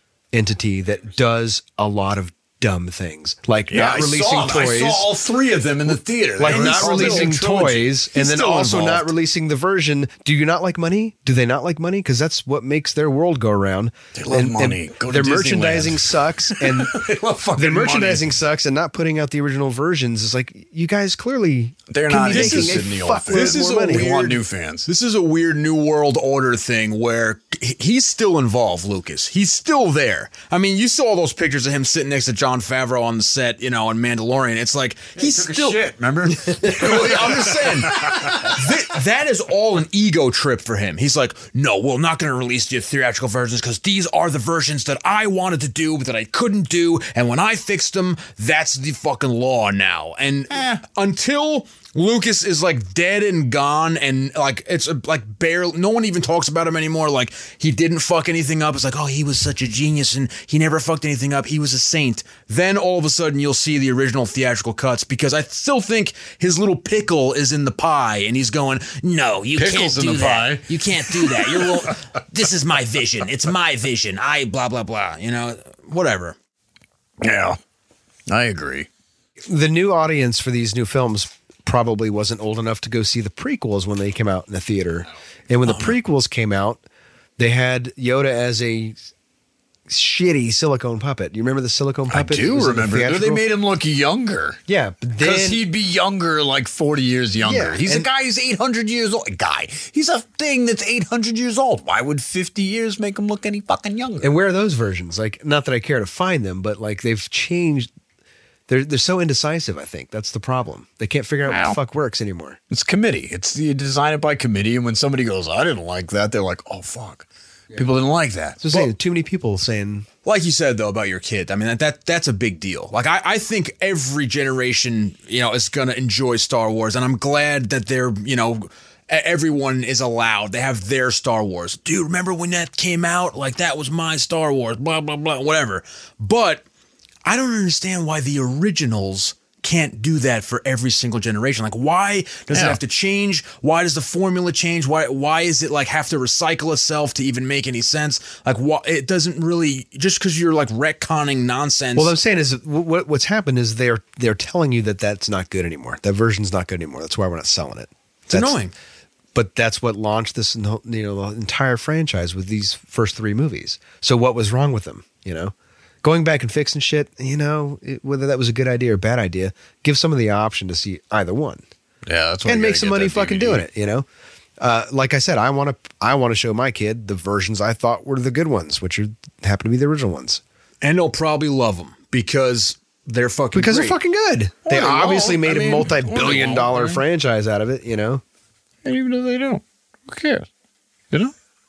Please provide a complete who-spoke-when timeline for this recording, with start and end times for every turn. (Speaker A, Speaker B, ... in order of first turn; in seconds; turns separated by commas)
Speaker A: 0.3-5.1, Speaker B: 3.7-7.8, Speaker A: 6.4-24.1, Speaker C: 6.5-9.1, Speaker B: 14.2-18.3, Speaker B: 21.9-24.9, Speaker C: 22.3-35.9, Speaker B: 35.2-38.6, Speaker C: 36.5-76.4, Speaker B: 50.5-50.8, Speaker B: 69.6-71.7, Speaker B: 77.2-77.6, Speaker B: 78.3-78.9, Speaker A: 79.5-86.8, Speaker C: 85.7-85.9, Speaker A: 87.4-89.0, Speaker A: 89.9-93.5, Speaker B: 92.1-94.6, Speaker A: 94.7-95.6, Speaker B: 95.2-104.3, Speaker A: 97.4-98.1, Speaker A: 104.2-107.9, Speaker A: 108.7-112.6, Speaker B: 111.5-111.8, Speaker B: 112.7-118.6, Speaker A: 118.6-120.1, Speaker C: 120.2-136.6, Speaker C: 137.3-152.2, Speaker B: 142.5-142.8, Speaker A: 151.9-158.6, Speaker C: 158.3-158.7, Speaker A: 159.3-171.6, Speaker B: 172.1-173.7, Speaker A: 172.4-174.1, Speaker A: 174.6-180.4, Speaker C: 180.8-184.0, Speaker A: 183.5-188.2, Speaker B: 184.7-187.0, Speaker B: 188.8-190.5